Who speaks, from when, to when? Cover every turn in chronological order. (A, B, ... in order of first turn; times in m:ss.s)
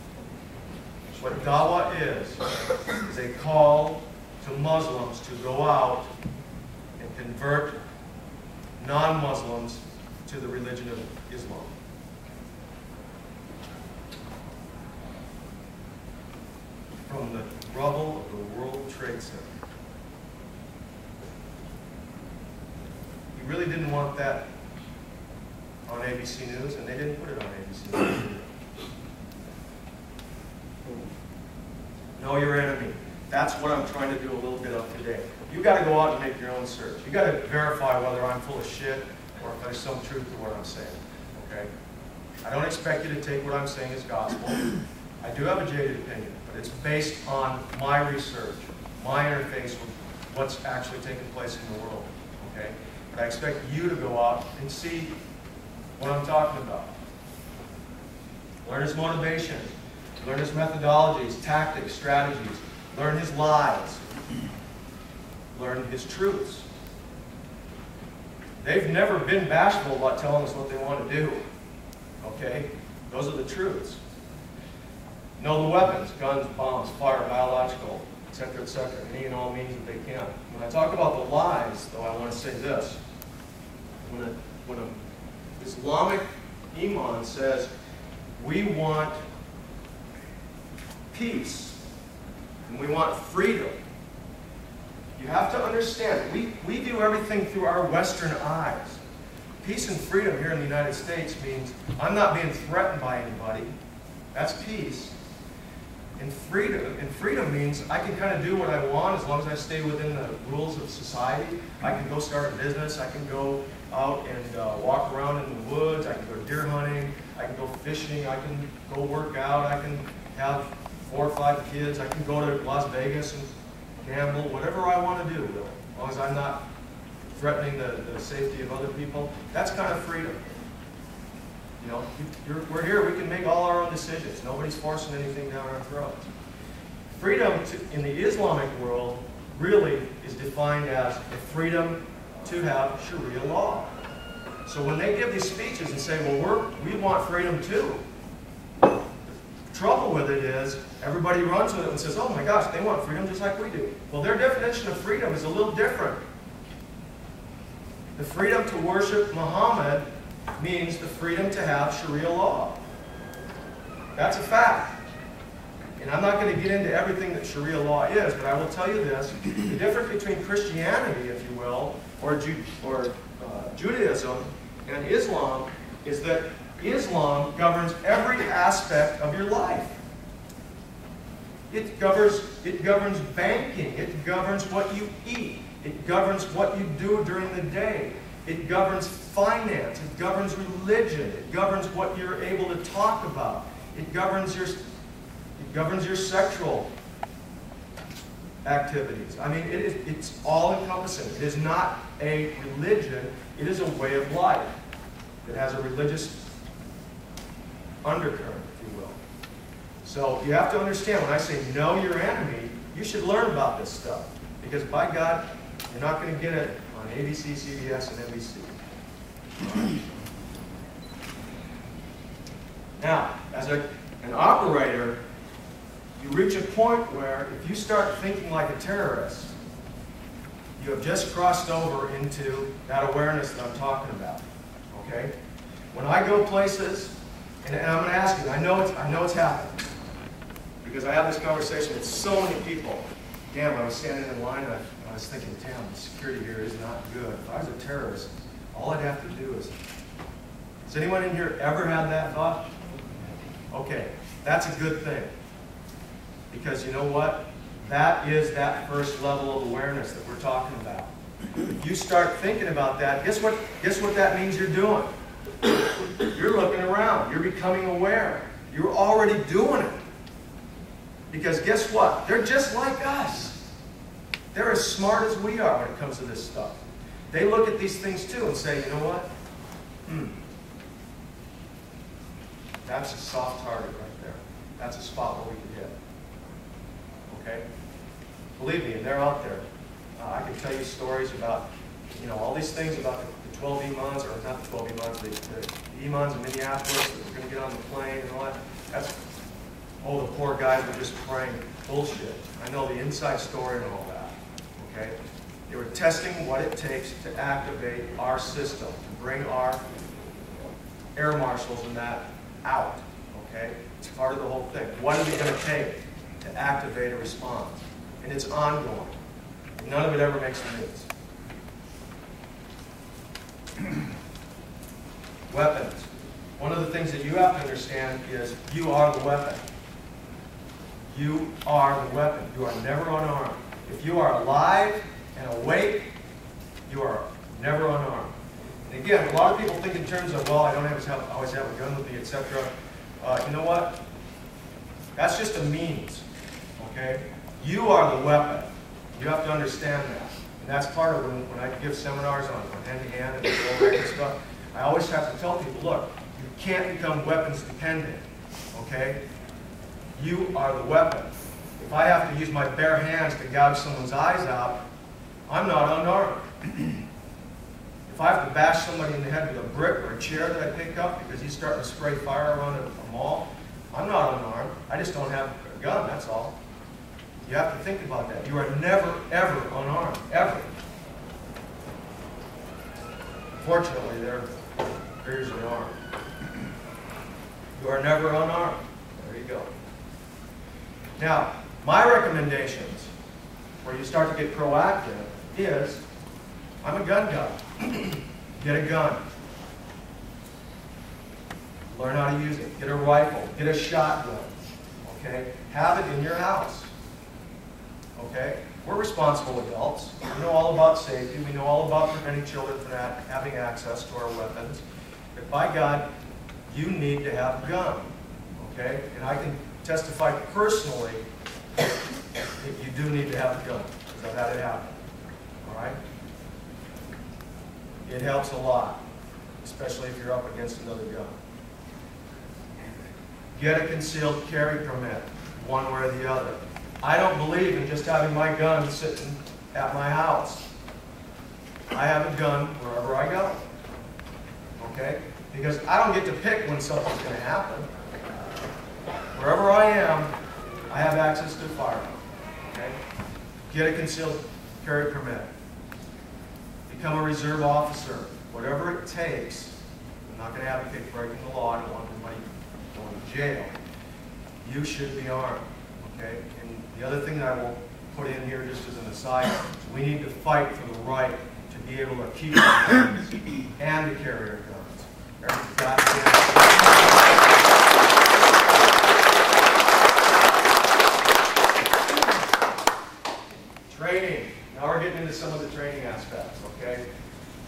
0:01.1-0:02.4 A
0:03.0-0:06.1 A
0:07.0-0:07.8 A
0:08.8-0:11.7 A
0:17.1-0:19.5 A
0:23.3-0:24.5 A
0:25.9-0:28.5 A
0:32.2-0:41.7 A
0:42.4-0:55.1 A
0:56.0-0:57.0 A
0:58.6-1:04.0 A
1:05.5-1:06.7 A
1:08.6-1:11.4 A
1:12.2-1:14.0 A
1:15.4-1:23.0 A
1:24.0-1:25.0 A
1:25.6-1:27.7 A
1:28.3-1:29.2 A
1:31.1-1:31.8 A
1:32.6-1:33.7 A
1:35.2-1:39.0 A
1:39.6-1:43.7 A
1:44.3-1:45.2 A
1:46.2-2:03.5 A
2:04.0-2:06.6 A
2:07.3-2:10.4 A
2:11.8-2:16.3 A
2:17.1-2:23.9 A
2:24.6-2:28.0 A
2:29.3-2:36.2 A
2:38.2-2:40.0 A
2:40.6-2:42.8 A
2:44.1-2:44.9 A
2:46.0-3:00.0 A
3:01.7-3:14.8 A
3:15.6-3:16.9 A
3:18.6-3:24.7 A
3:25.4-3:26.4 A
3:28.0-3:29.2 A
3:30.0-3:38.8 A
3:43.0-3:45.2 A
3:46.2-3:49.5 A
3:50.8-3:55.3 A
3:55.9-3:59.8 A
4:00.8-4:09.7 A
4:10.8-4:12.7 A
4:13.7-4:15.3 A
4:16.5-4:21.1 A
4:21.8-4:25.1 A
4:26.3-4:30.0 A
4:31.3-4:33.6 A
4:34.5-4:39.3 A
4:40.1-4:40.4 A
4:42.8-4:45.9 A
4:47.3-4:47.6 A
4:48.6-4:49.6 A
4:50.2-4:59.1 A
5:00.0-5:05.2 A
5:05.7-5:09.8 A
5:11.2-5:19.2 A
5:19.8-5:21.1 A
5:25.5-5:29.6 A
5:31.1-5:36.1 A
5:36.9-5:38.3 A
5:38.9-5:42.7 A
5:43.2-5:44.0 A
5:45.1-5:46.2 A
5:46.8-5:58.2 A
5:58.7-5:59.2 A
6:00.2-6:04.8 A
6:05.5-6:06.5 A
6:08.1-6:16.6 A
6:17.4-6:20.7 A
6:23.6-6:24.5 A
6:25.2-6:26.0 A
6:27.8-6:29.7 A
6:31.2-6:33.1 A
6:33.8-6:36.0 A
6:36.8-6:39.2 A
6:41.9-6:46.9 A
6:48.2-6:54.8 A
6:55.3-6:56.1 A
6:56.7-7:01.2 A
7:02.6-7:04.9 A
7:05.6-7:06.0 A
7:08.0-7:09.0 A
7:09.6-7:11.4 A
7:13.5-7:20.7 A
7:21.9-7:23.6 A
7:24.8-7:27.9 A
7:29.3-7:30.3 A
7:30.9-7:33.0 A
7:33.7-7:35.5 A
7:36.9-7:43.7 A
7:44.6-7:57.1 A
8:03.9-8:07.0 A